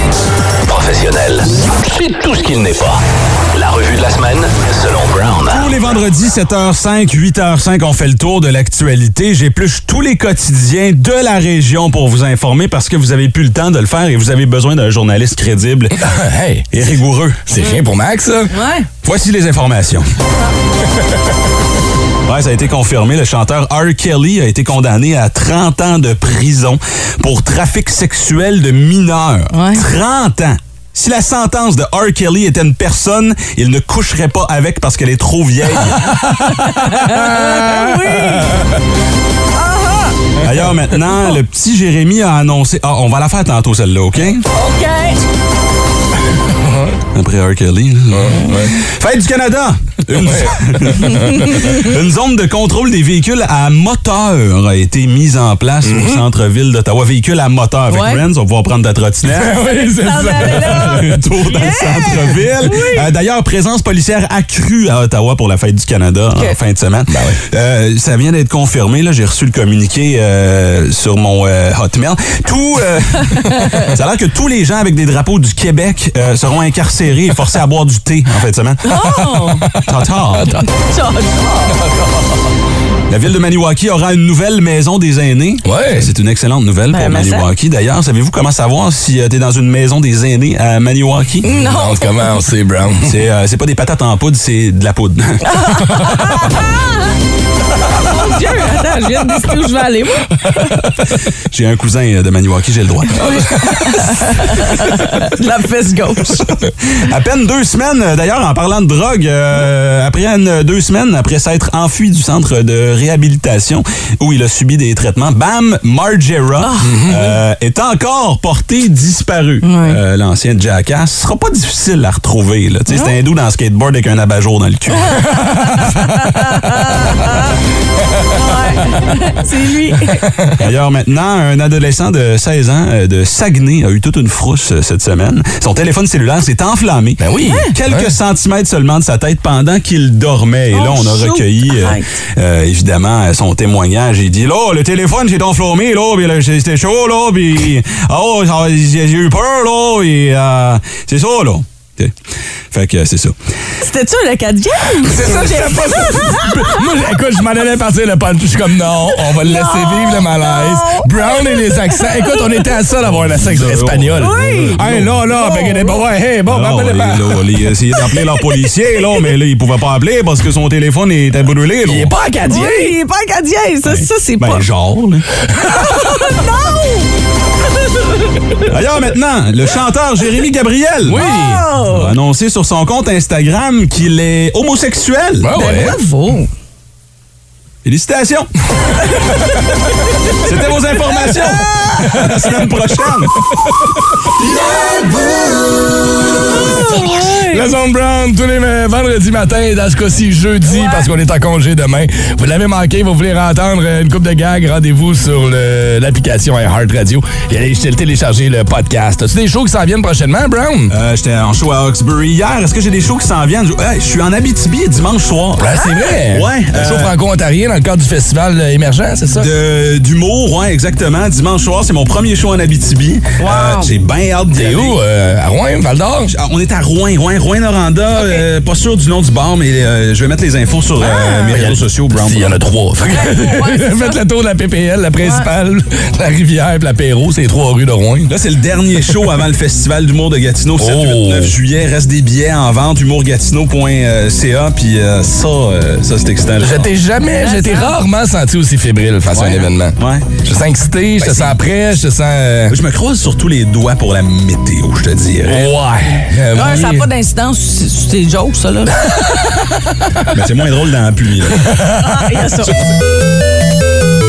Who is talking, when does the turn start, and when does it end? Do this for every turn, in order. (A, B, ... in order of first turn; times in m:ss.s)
0:00.6-0:03.0 A
0:03.5-0:05.7 A
0:05.4-0:16.0 B
0:16.0-0:16.8 C
0:16.7-0:17.5 B
0:17.5-0:18.5 C
0:18.5-0:18.9 D
0:19.0-0:20.1 B
0:22.3-0:36.1 B
0:29.5-0:29.8 D
0:36.0-0:36.5 C
0:36.5-0:38.6 D
0:37.4-0:37.8 C
0:39.6-0:40.3 D
0:40.4-0:44.4 B
0:44.5-0:45.2 D
0:46.6-0:47.0 C
0:47.1-0:59.6 B
0:48.1-0:48.8 C
0:50.2-0:51.6 C
0:51.0-0:51.9 D
0:55.8-0:56.2 C
0:57.9-0:58.2 D
0:59.3-1:01.2 C
0:59.6-1:03.1 D
1:00.6-1:18.8 B
1:07.1-1:07.4 C
1:13.3-1:13.9 D
1:18.8-1:19.7 D
1:19.5-1:19.8 C
1:19.8-1:20.6 B
1:20.4-1:20.6 C
1:20.7-1:21.8 D
1:21.7-1:22.4 C
1:23.1-1:31.5 B
1:25.6-1:26.1 C
1:26.9-1:27.5 D
1:31.4-1:32.4 D
1:31.5-1:33.1 C
1:33.0-1:35.4 B
1:35.4-1:37.1 D
1:35.8-1:36.2 C
1:38.0-1:40.8 D
1:41.5-1:43.3 B
1:43.1-1:46.5 D
1:46.9-2:05.2 B
1:56.6-1:57.0 D
1:56.9-1:57.4 C
1:59.6-2:00.0 D
2:02.9-2:03.2 D
2:05.1-2:07.6 D
2:05.5-2:05.8 C
2:08.3-2:10.3 D
2:10.6-2:32.2 B
2:17.2-2:18.1 C
2:17.4-2:17.7 D
2:20.7-2:22.2 D
2:32.7-2:33.4 B
2:33.8-2:37.1 D
2:35.0-2:47.4 C
2:39.1-2:42.8 D
2:43.0-2:45.2 B
2:44.2-2:46.0 D
2:46.5-2:52.1 B
2:48.0-2:48.4 D
2:51.8-2:53.0 C
2:52.5-2:54.7 D
2:53.8-2:55.3 B
2:55.6-2:57.1 D
2:57.7-2:58.7 D
2:58.7-3:01.2 B
3:01.1-3:01.7 C
3:01.2-3:02.1 D
3:01.9-3:05.5 B
3:05.4-3:06.0 C
3:05.6-3:06.5 D
3:07.8-3:08.5 B
3:09.0-3:09.6 D
3:10.4-3:13.4 B
3:11.1-3:12.2 D
3:14.4-3:15.5 D
3:16.4-3:17.7 D
3:17.5-3:30.9 C
3:20.7-3:21.1 D
3:30.9-3:37.2 B
3:35.6-3:39.5 C
3:39.3-3:45.0 B
3:43.4-3:43.9 D
3:44.5-3:46.3 C
3:46.3-3:52.6 B
3:48.2-3:48.4 D
3:51.0-3:51.5 D
3:51.5-3:58.3 C
3:53.1-3:54.2 D
3:55.2-3:55.5 D
3:58.3-4:06.9 B
4:00.8-4:01.5 C
4:06.6-4:12.8 C
4:07.3-4:07.9 D
4:09.3-4:10.4 B
4:11.2-4:11.6 B
4:12.7-4:15.8 B
4:15.5-4:17.1 C
4:16.5-4:19.5 D
4:19.0-4:20.3 C
4:20.3-4:21.6 B
4:21.5-4:22.3 C
4:22.0-4:22.7 D